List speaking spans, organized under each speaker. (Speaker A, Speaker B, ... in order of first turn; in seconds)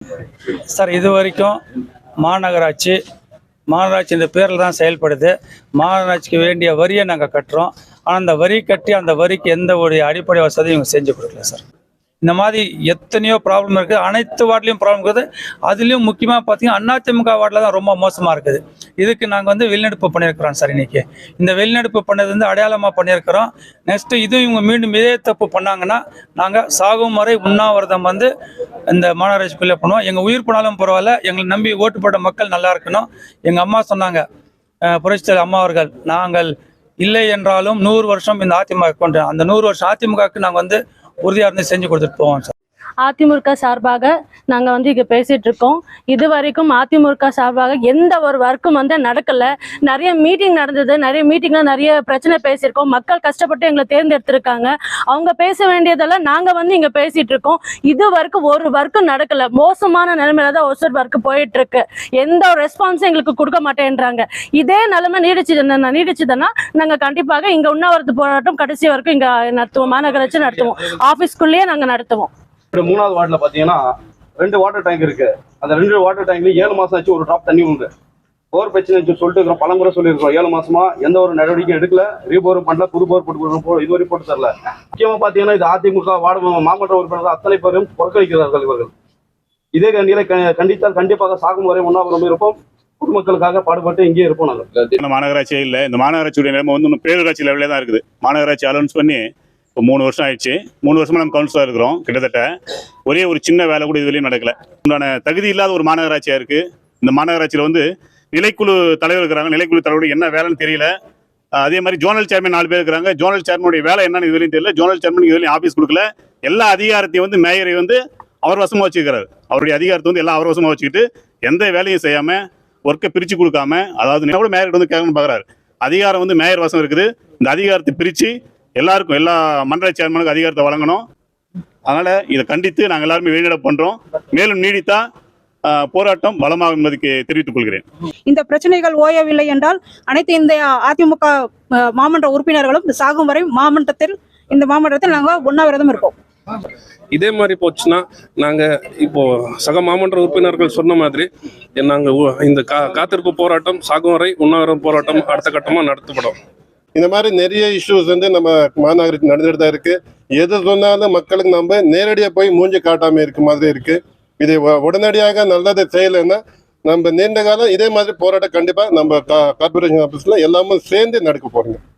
Speaker A: 0.7-1.6, 2.2-3.0, 3.7-11.6, 12.2-28.3, 28.9-34.2, 34.9-42.5
Speaker B: 43.0-72.3
Speaker C: 72.7-73.8, 74.4-77.9, 78.5-88.9, 89.7-95.0
Speaker D: 95.0-99.2, 99.8-102.5, 103.1-110.9, 111.6-131.0, 131.9-135.0, 135.7-137.8
Speaker E: 138.3-146.2
Speaker F: 147.1-156.4
Speaker G: 157.0-171.8